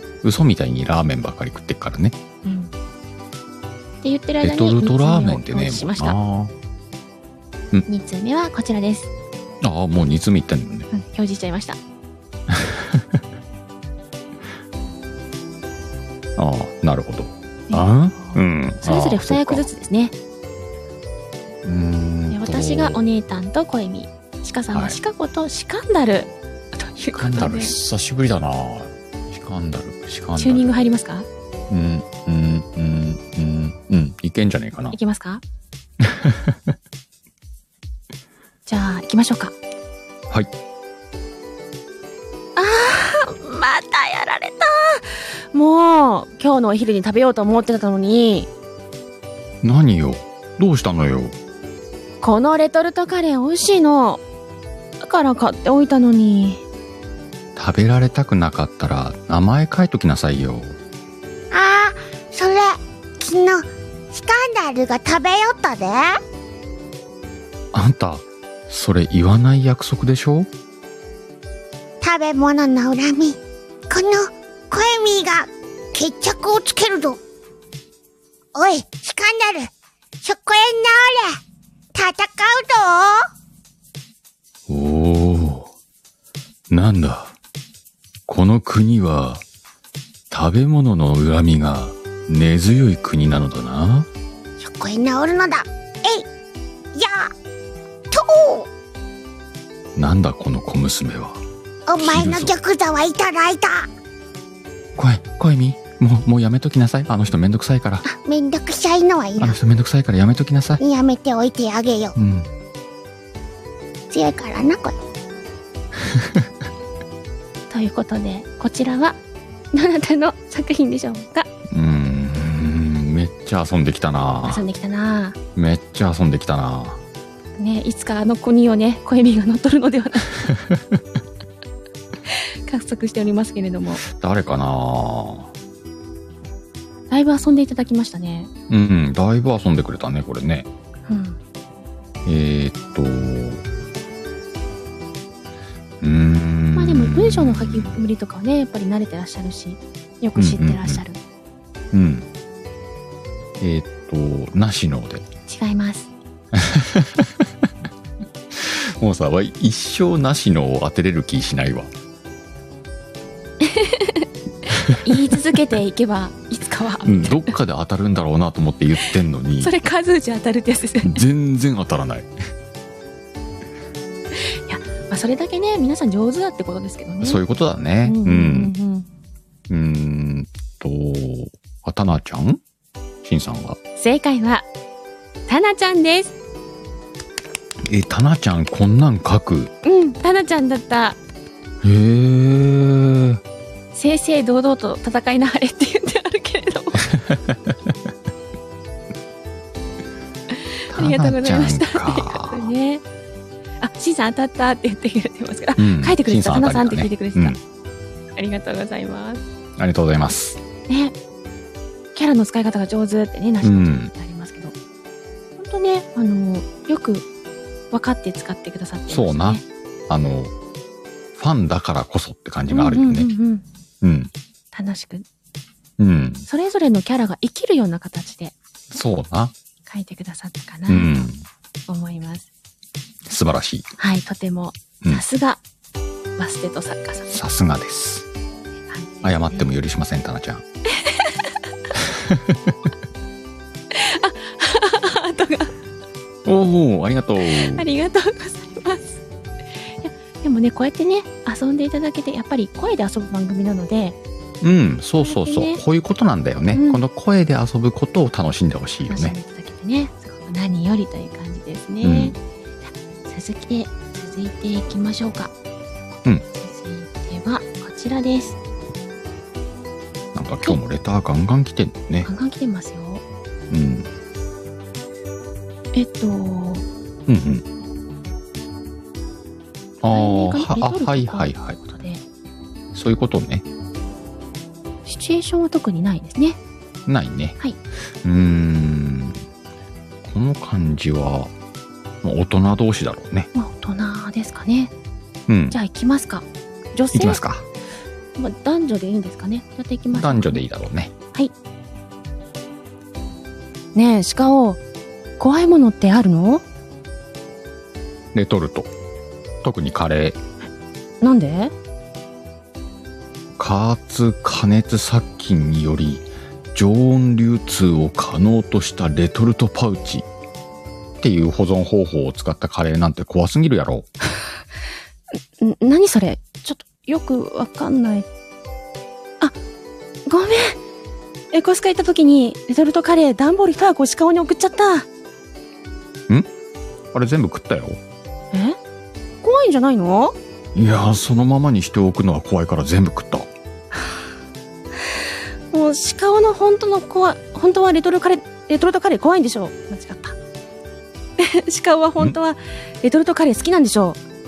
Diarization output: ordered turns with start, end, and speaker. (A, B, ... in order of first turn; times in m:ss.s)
0:00.2-0:02.2 A
0:02.4-0:02.7 B
0:04.0-0:06.2 B
0:04.4-0:06.5 A
0:07.9-0:09.1 B
0:09.6-0:10.9 A
0:10.9-0:11.8 B
0:12.5-0:13.2 A
0:16.4-0:19.7 A
0:17.7-0:20.1 B
0:21.6-0:23.0 A
0:22.3-0:27.7 B
0:24.7-0:25.0 A
0:27.1-0:30.7 A
0:30.4-0:31.3 B
0:31.7-0:35.0 A
0:34.9-0:35.4 B
0:36.0-0:36.6 A
0:38.6-0:39.5 B
0:42.6-0:48.5 B
0:49.6-0:51.3 A
0:52.2-0:54.2 B
0:55.0-0:56.6 B
0:57.6-1:00.8 A
1:01.5-1:06.2 C
1:07.7-1:10.5 A
1:12.0-1:17.2 C
1:18.5-1:19.7 C
1:20.2-1:21.4 C
1:21.9-1:23.2 C
1:24.7-1:25.7 A
1:26.7-1:27.3 A
1:28.3-1:29.4 A
1:30.3-1:34.1 A
1:34.6-1:36.2 C
1:36.9-1:37.3 C
1:38.1-1:38.7 C
1:39.9-1:41.4 A
1:41.9-1:43.9 C
1:42.0-1:42.5 A
1:45.0-1:48.0 A
1:48.1-1:49.6 C
1:49.4-1:50.8 A
1:50.8-1:52.2 C
1:52.2-1:52.5 A
1:54.1-1:55.0 C
1:56.1-1:56.4 A
1:57.7-1:59.2 B
1:59.7-2:01.5 B
2:01.7-2:04.6 A
2:04.4-2:05.4 B
2:05.6-2:07.0 A
2:07.6-2:10.5 B
2:10.7-2:11.0 A
2:12.3-2:14.0 B
2:14.0-2:15.5 A
2:17.1-2:18.5 B
2:18.7-2:20.7 A
2:21.1-2:21.4 B
2:22.2-2:23.6 A
2:26.0-2:28.0 A
2:26.7-2:31.2 B
2:30.4-2:31.0 A
2:31.9-2:32.2 A
2:33.6-2:35.2 A
2:35.5-2:36.1 B
2:36.6-2:37.4 A
2:38.5-2:41.9 A
2:43.6-2:44.2 B
2:44.9-2:47.5 B
2:47.0-2:49.7 A
2:49.6-2:51.2 B
2:51.0-2:52.3 A
2:54.3-2:57.4 B
2:57.2-2:58.7 A
2:58.0-2:59.1 B
2:59.7-3:02.6 A
3:03.2-3:03.8 A
3:04.0-3:04.7 B
3:05.5-3:06.3 B
3:07.8-3:09.7 A
3:09.8-3:11.2 B
3:11.8-3:13.4 A
3:13.9-3:17.1 B
3:17.1-3:17.7 A
3:20.5-3:23.0 B
3:20.9-3:22.7 A
3:23.8-3:27.6 B
3:25.8-3:27.6 A
3:28.4-3:29.4 B
3:29.8-3:30.6 A
3:30.9-3:31.1 B
3:32.1-3:34.7 B
3:33.6-3:34.1 A
3:35.6-3:37.2 B
3:37.9-3:39.6 B
3:39.1-3:40.5 A
3:41.4-3:43.3 A
3:42.7-3:43.6 B
3:44.0-3:44.3 A
3:44.7-3:45.2 B
3:46.0-3:46.4 A
3:46.5-3:48.5 B
3:48.9-3:49.5 A
3:49.9-3:51.3 B
3:50.9-3:51.4 A
3:51.9-3:52.5 B
3:53.2-3:53.9 A
3:54.0-3:55.6 B
3:56.4-3:57.3 B
3:57.3-3:58.3 A
3:58.9-3:59.7 B
3:59.2-4:00.6 A
4:00.9-4:01.6 B
4:02.0-4:02.6 A
4:03.9-4:05.7 B
4:06.4-4:07.8 A
4:07.4-4:09.2 B
4:10.0-4:14.2 B
4:14.6-4:19.4 A
4:15.2-4:15.8 B
4:16.7-4:17.0 B
4:19.0-4:25.5 B
4:22.0-4:22.4 A
4:26.5-4:28.6 B
4:30.3-4:32.3 A
4:32.2-4:33.2 B
4:33.7-4:34.1 A
4:35.9-4:36.8 B
4:37.3-4:37.6 A
4:40.0-4:41.8 A
4:40.1-4:42.2 B
4:42.9-4:43.6 A
4:45.0-4:46.6 B
4:47.0-4:47.6 A
4:48.2-4:49.4 A
4:50.2-4:51.5 A
4:52.2-4:53.5 A
4:53.5-4:54.9 B
4:55.5-4:55.8 A
4:55.7-4:57.4 B
4:57.1-4:57.6 A
4:58.4-5:00.6 B
5:00.1-5:01.1 A
5:03.9-5:04.8 B
5:05.4-5:06.6 B
5:08.3-5:08.9 A
5:09.6-5:10.4 A
5:11.2-5:11.7 B
5:13.6-5:20.2 A
5:21.2-5:24.1 A
5:25.6-5:28.3 B
5:30.2-5:30.8 B
5:31.5-5:35.1 B
5:37.1-5:38.0 A
5:38.5-5:38.8 B
5:39.4-5:40.3 B
5:40.7-5:43.5 A
5:45.7-5:50.4 B
5:51.4-5:54.2 B